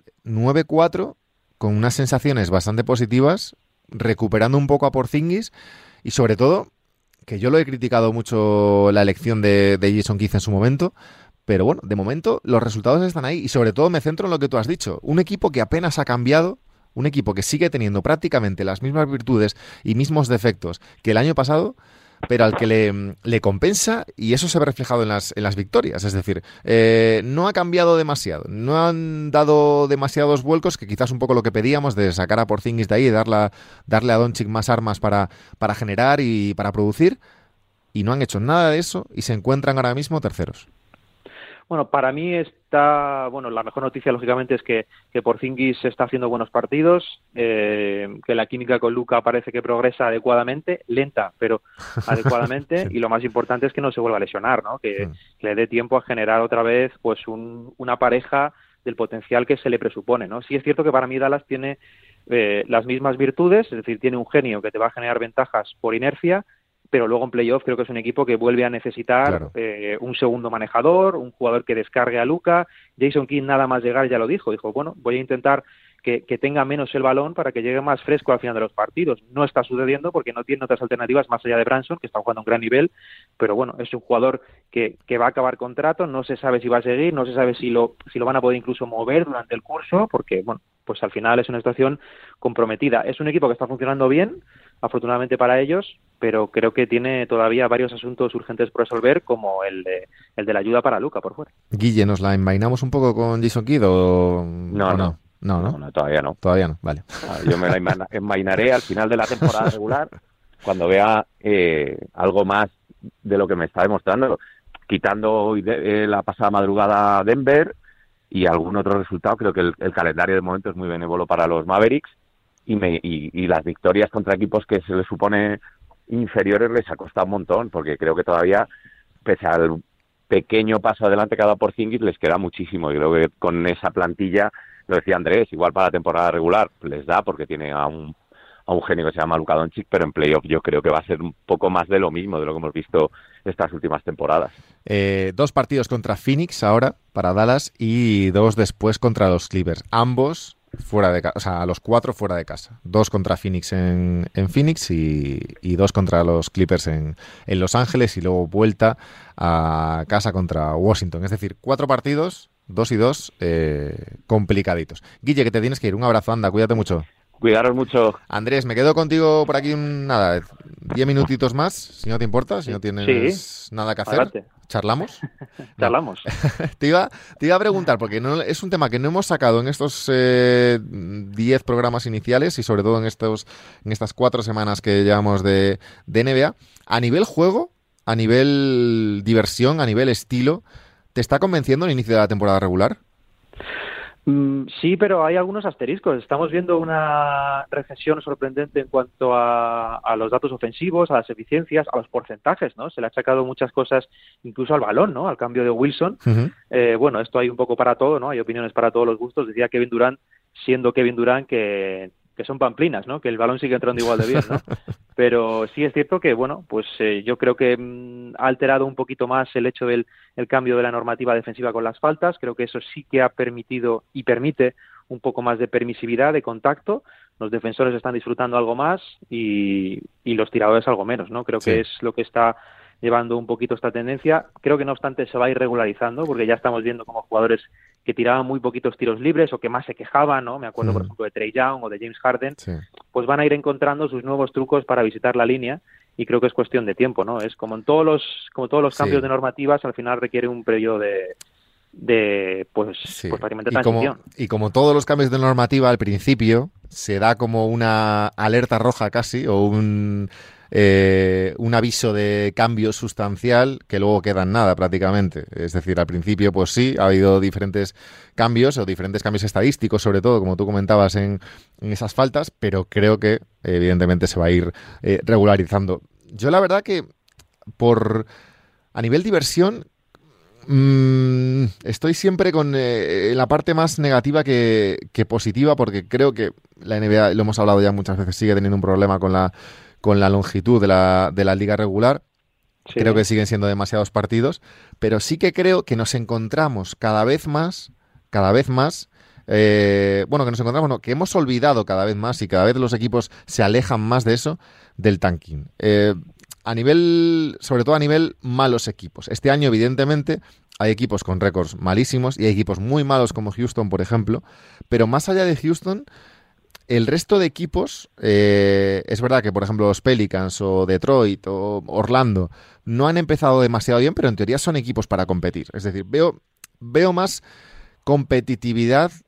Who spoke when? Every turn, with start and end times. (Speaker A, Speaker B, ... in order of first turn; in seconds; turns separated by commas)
Speaker A: 0.2-5.5, Speaker A: 6.0-6.7, Speaker A: 7.2-10.9, Speaker A: 11.5-37.2, Speaker A: 37.9-40.6, Speaker B: 41.7-101.5, Speaker A: 69.2-69.5, Speaker A: 101.7-105.8, Speaker C: 104.7-106.4, Speaker A: 106.4-107.7, Speaker C: 107.2-110.1, Speaker C: 110.6-112.7, Speaker C: 113.2-117.7, Speaker C: 118.3-122.1, Speaker C: 122.7-128.7, Speaker C: 129.2-138.1, Speaker C: 138.7-144.5, Speaker A: 144.9-167.0, Speaker C: 167.4-168.2, Speaker A: 168.3-175.2, Speaker B: 173.0-173.4, Speaker B: 174.1-174.4, Speaker B: 175.8-176.3, Speaker A: 175.8-190.6, Speaker A: 191.1-193.0, Speaker B: 194.2-214.6, Speaker A: 206.2-206.5, Speaker B: 215.2-242.6, Speaker A: 240.8-241.1, Speaker B: 243.1-251.3, Speaker A: 248.9-249.2, Speaker B: 251.9-254.2, Speaker A: 253.1-277.0, Speaker A: 277.8-278.3, Speaker A: 278.9-279.9, Speaker A: 280.6-289.5, Speaker A: 290.0-292.2, Speaker B: 292.9-293.2, Speaker A: 292.9-316.1, Speaker A: 316.9-327.4, Speaker A: 328.1-329.1